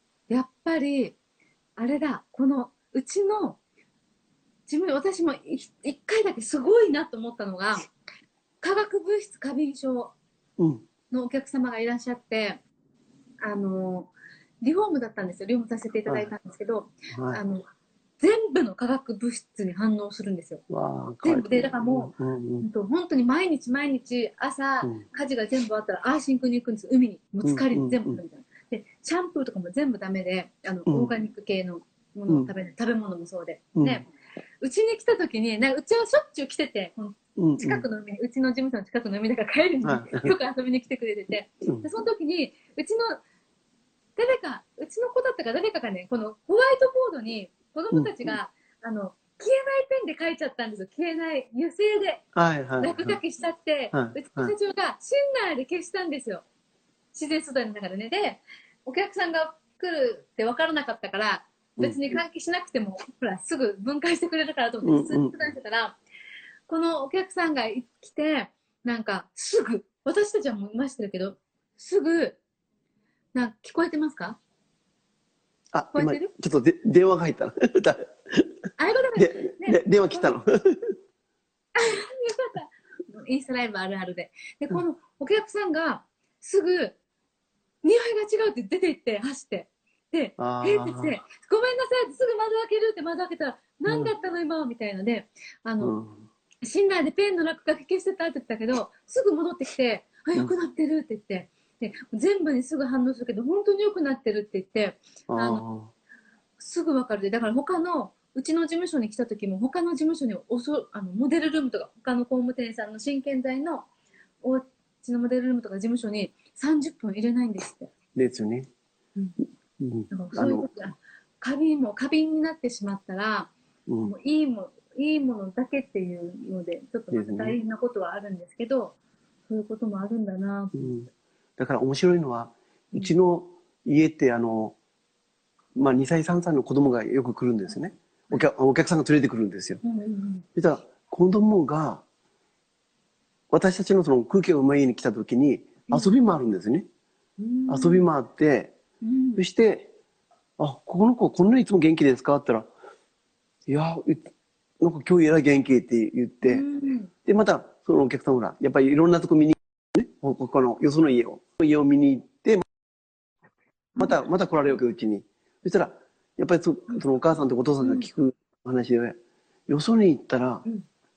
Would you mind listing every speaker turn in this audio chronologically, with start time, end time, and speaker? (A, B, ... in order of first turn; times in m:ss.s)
0:00.3-0:01.2 A
0:01.8-0:03.6 A
0:04.7-0:07.9 A
0:08.6-0:10.1 A
0:10.6-0:10.8 B
0:11.1-0:12.6 A
0:13.4-0:17.6 A
0:16.1-0:16.3 B
0:17.1-0:17.4 B
0:18.2-0:20.6 A
0:20.7-0:22.7 B
0:21.2-0:34.1 A
0:27.4-0:28.2 B
0:30.9-0:31.1 B
0:33.8-0:34.0 B
0:34.6-0:43.2 A
0:37.4-0:37.9 B
0:39.8-0:40.3 B
0:44.2-0:52.2 A
0:47.9-0:48.4 B
0:52.3-0:53.2 B
0:52.8-0:56.4 A
0:53.9-0:54.5 B
0:57.1-1:06.0 A
1:01.8-1:02.1 B
1:04.8-1:05.4 B
1:06.7-1:12.4 A
1:13.3-1:14.4 A
1:15.7-1:18.5 B
1:15.9-1:16.3 A
1:18.8-1:20.3 A
1:19.1-1:20.9 B
1:21.8-1:27.0 A
1:27.8-1:36.0 A
1:30.4-1:31.2 B
1:33.9-1:34.1 B
1:35.8-1:36.2 B
1:36.6-1:45.6 A
1:45.3-1:45.9 B
1:46.6-1:53.9 A
1:54.4-1:57.9 A
1:58.1-1:58.7 B
1:59.8-2:00.7 B
2:00.1-2:03.5 A
2:03.9-2:04.1 B
2:04.0-2:09.0 A
2:07.1-2:07.6 B
2:09.5-2:10.9 A
2:10.7-2:14.8 B
2:15.8-2:19.8 B
2:19.8-2:20.4 A
2:20.6-2:22.0 B
2:23.5-2:26.8 B
2:27.4-2:28.1 A
2:27.7-2:28.7 B
2:29.0-2:29.4 A
2:29.4-2:29.9 B
2:30.6-2:32.7 B
2:33.7-2:36.6 B
2:36.4-2:37.1 A
2:37.2-2:42.6 B
2:44.0-2:49.2 B
2:47.8-2:48.1 A
2:49.7-2:50.6 B